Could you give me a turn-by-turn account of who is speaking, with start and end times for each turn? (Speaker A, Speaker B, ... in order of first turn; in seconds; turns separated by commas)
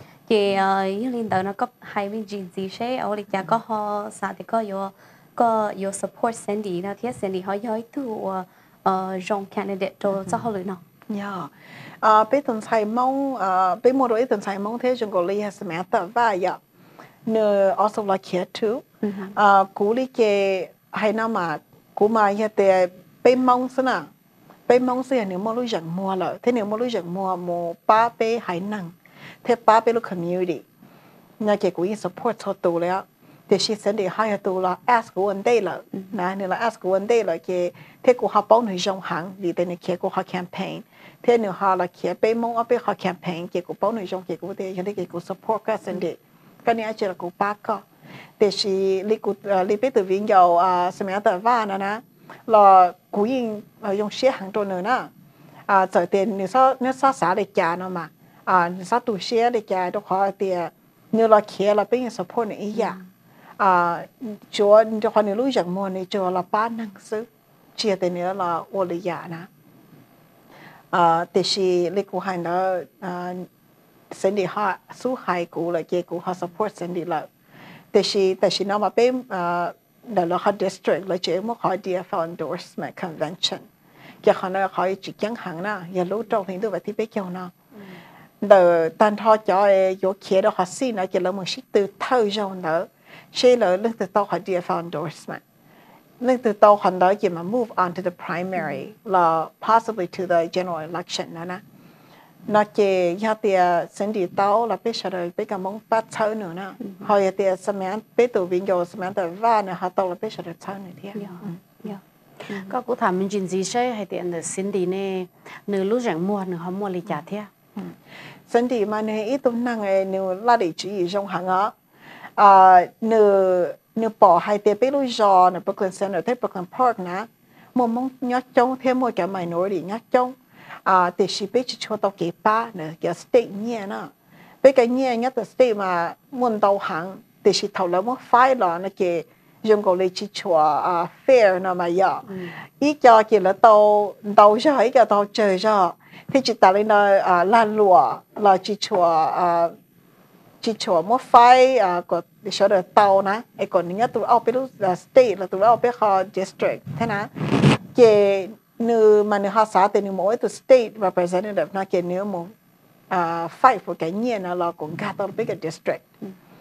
Speaker A: 0.3-10.8, Speaker B: 11.1-16.6, Speaker B: 17.2-18.8, Speaker A: 19.0-19.4, Speaker B: 19.4-24.1, Speaker B: 24.7-28.9, Speaker B: 29.4-30.6, Speaker B: 31.4-47.8, Speaker B: 48.4-55.1, Speaker B: 55.7-63.0, Speaker B: 63.6-69.5, Speaker B: 70.9-73.5, Speaker B: 74.1-77.2, Speaker B: 77.9-83.6, Speaker B: 84.2-87.5, Speaker B: 88.4-95.4, Speaker B: 96.2-101.6, Speaker B: 102.5-111.6, Speaker A: 106.8-107.1, Speaker A: 111.1-112.7, Speaker C: 112.5-117.5, Speaker B: 118.5-121.7, Speaker B: 122.4-142.3, Speaker B: 142.8-149.7, Speaker B: 150.6-162.5, Speaker B: 163.1-166.0